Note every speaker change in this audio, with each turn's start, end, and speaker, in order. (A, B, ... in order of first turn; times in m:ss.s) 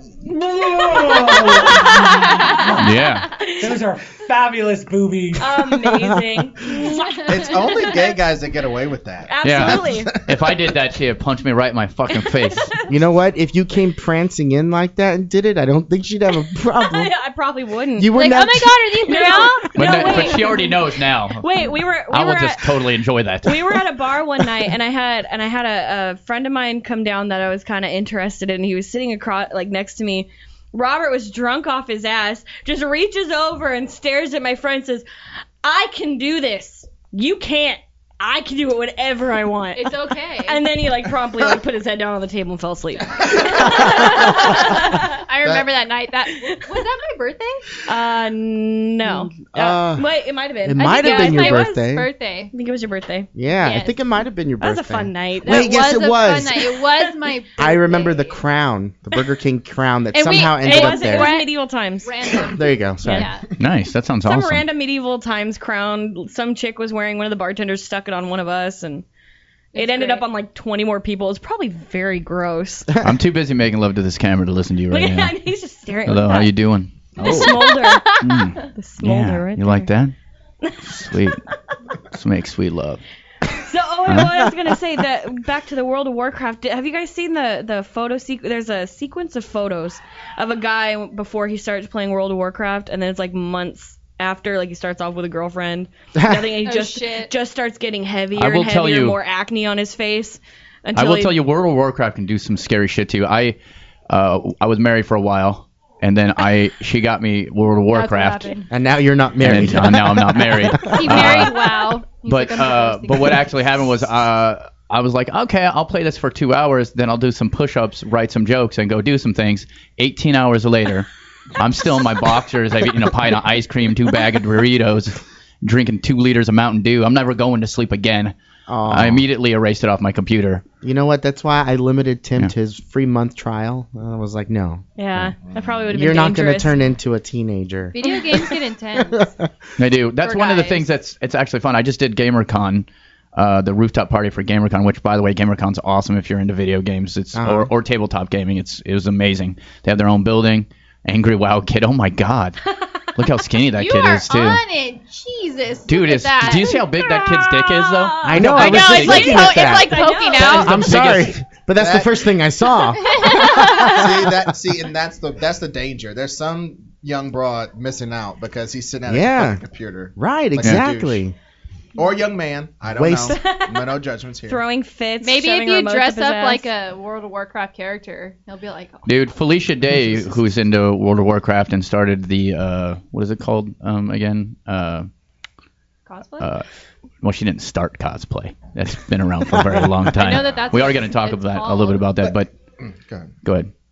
0:00.2-0:03.0 A
0:00.8-0:02.7 B
0:02.8-0:03.3 C
0:03.4-0:03.7 B
0:03.6-0:05.8 A
0:05.4-0:07.9 B
0:05.9-0:06.2 D
0:06.8-0:07.2 E
0:07.3-0:10.6 F
0:09.3-0:10.1 B
0:09.4-0:12.7 C
0:12.1-0:12.8 B
0:12.9-0:17.1 D
0:16.5-0:18.4 B
0:18.0-0:18.9 D
0:18.1-0:20.6 E
0:19.0-0:22.8 B
0:19.7-0:21.4 C
0:22.1-0:23.8 C
0:23.4-0:35.0 B
0:35.6-0:45.2 B
0:39.7-0:40.6 E
0:43.4-0:47.6 E
0:45.4-0:45.8 F
0:46.4-0:46.6 B
0:47.8-0:51.9 B
0:49.5-0:50.0 D
0:50.6-0:52.1 D
0:50.8-0:52.5 E
0:52.5-0:53.3 B
0:53.4-0:56.7 D
0:53.6-0:53.9 E
0:54.6-0:55.8 B
0:55.4-0:58.4 E
0:56.8-0:57.1 B
0:57.6-1:01.3 D
1:00.1-1:03.5 E
1:00.6-1:02.1 B
1:02.4-1:03.3 D
1:03.6-1:04.6 C
1:04.2-1:09.0 B
1:09.7-1:10.2 E
1:09.7-1:12.9 B
1:13.0-1:15.4 C
1:14.9-1:16.5 B
1:16.0-1:17.6 C
1:17.2-1:19.9 B
1:17.3-1:18.4 E
1:18.2-1:20.1 C
1:20.6-1:21.4 B
1:20.9-1:21.4 C
1:22.1-1:23.0 C
1:23.5-1:41.4 B
1:24.1-1:24.5 C
1:36.2-1:36.4 D
1:36.6-1:37.3 E
1:38.4-1:39.2 C
1:41.0-1:43.6 C
1:44.1-1:48.5 C
1:47.9-1:48.7 E
1:48.7-1:51.4 D
1:49.4-2:08.3 C
1:50.8-1:53.4 E
2:08.7-2:09.2 D
2:08.9-2:10.6 C
2:10.8-2:15.3 D
2:15.0-2:16.8 B
2:15.4-2:15.9 F
2:15.9-2:18.4 D
2:17.9-2:19.3 E
2:19.0-2:19.3 D
2:19.8-2:34.6 C
2:20.2-2:20.8 E
2:27.3-2:27.7 D
2:33.8-2:36.9 E
2:35.9-2:39.5 C
2:36.9-2:40.7 B
2:38.2-2:44.4 D
2:38.5-2:40.9 E
2:40.3-2:41.4 C
2:41.7-2:42.3 F
2:42.9-2:44.1 E
2:43.6-2:51.2 F
2:49.0-2:49.6 D
2:50.1-2:51.3 D
2:52.0-2:54.6 F
2:52.9-2:53.4 D
2:53.3-2:56.7 B
2:55.2-2:59.1 E
2:59.0-3:05.1 C
3:06.0-3:06.5 E
3:06.4-3:06.6 C
3:07.2-3:12.5 C
3:10.1-3:12.1 E
3:12.2-3:13.3 F
3:13.4-3:13.7 C